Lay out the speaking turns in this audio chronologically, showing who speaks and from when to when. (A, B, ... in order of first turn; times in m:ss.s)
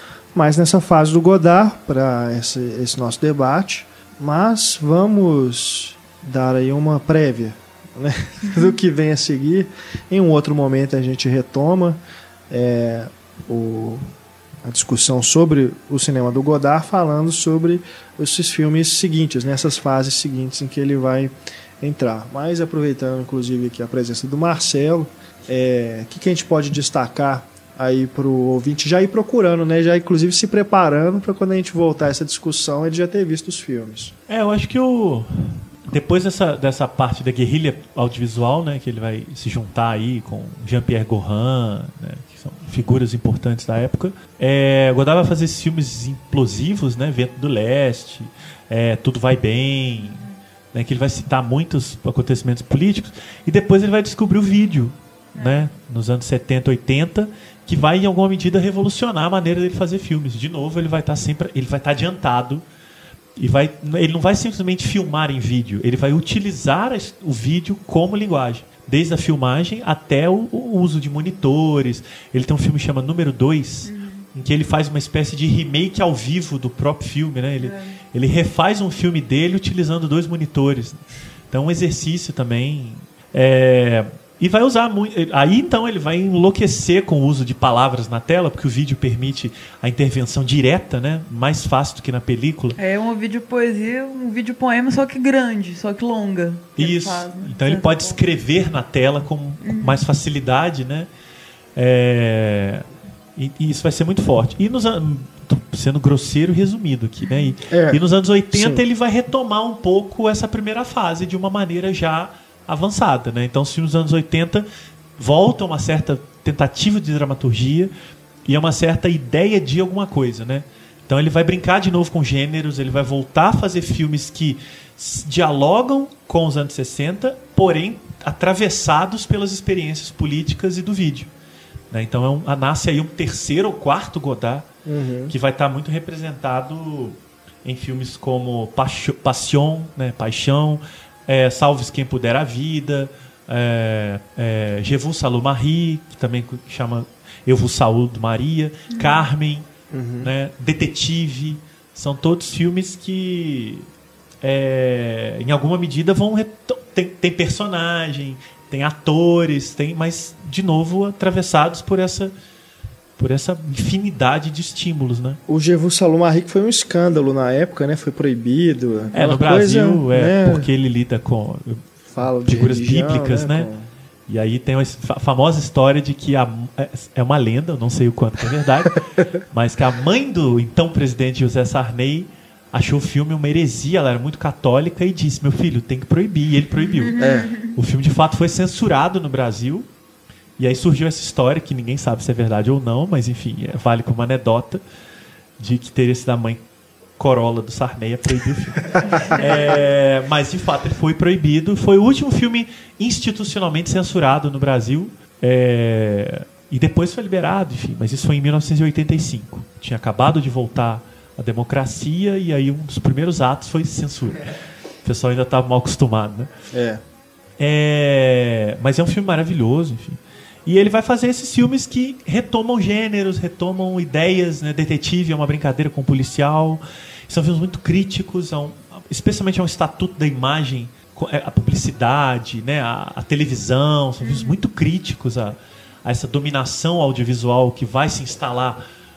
0:00.4-0:14.0 A
0:14.6-0:34.1 A
0:34.3-1:02.6 B
0:50.0-0:50.4 C
0:55.4-0:55.7 C
1:03.4-1:32.8 B
1:13.8-1:14.3 C
1:17.6-1:18.0 C
1:32.8-1:38.2 C
1:36.8-1:41.1 B
1:39.6-1:40.0 C
1:41.8-1:54.7 B
1:47.2-1:47.5 C
1:47.7-1:48.0 A
1:48.5-1:48.8 A
1:55.2-1:57.9 B
1:58.5-2:11.3 B
2:11.9-2:14.7 B
2:14.8-2:15.3 A
2:15.3-2:29.7 B
2:28.9-2:29.3 C
2:29.9-2:30.3 A
2:30.2-2:33.9 B
2:34.4-2:42.3 B
2:43.2-2:45.4 B
2:45.5-2:50.7 A
2:49.1-2:51.8 B
2:52.1-2:53.9 A
2:52.4-2:53.7 B
2:54.3-3:09.9 B
3:06.8-3:07.7 C
3:07.2-3:07.5 A
3:10.6-3:14.8 B
3:15.6-3:16.6 B
3:17.2-3:36.5 B
3:18.9-3:19.6 A
3:19.0-3:19.8 C
3:36.7-3:37.0 A
3:37.6-3:58.8 B
3:54.2-3:54.6 C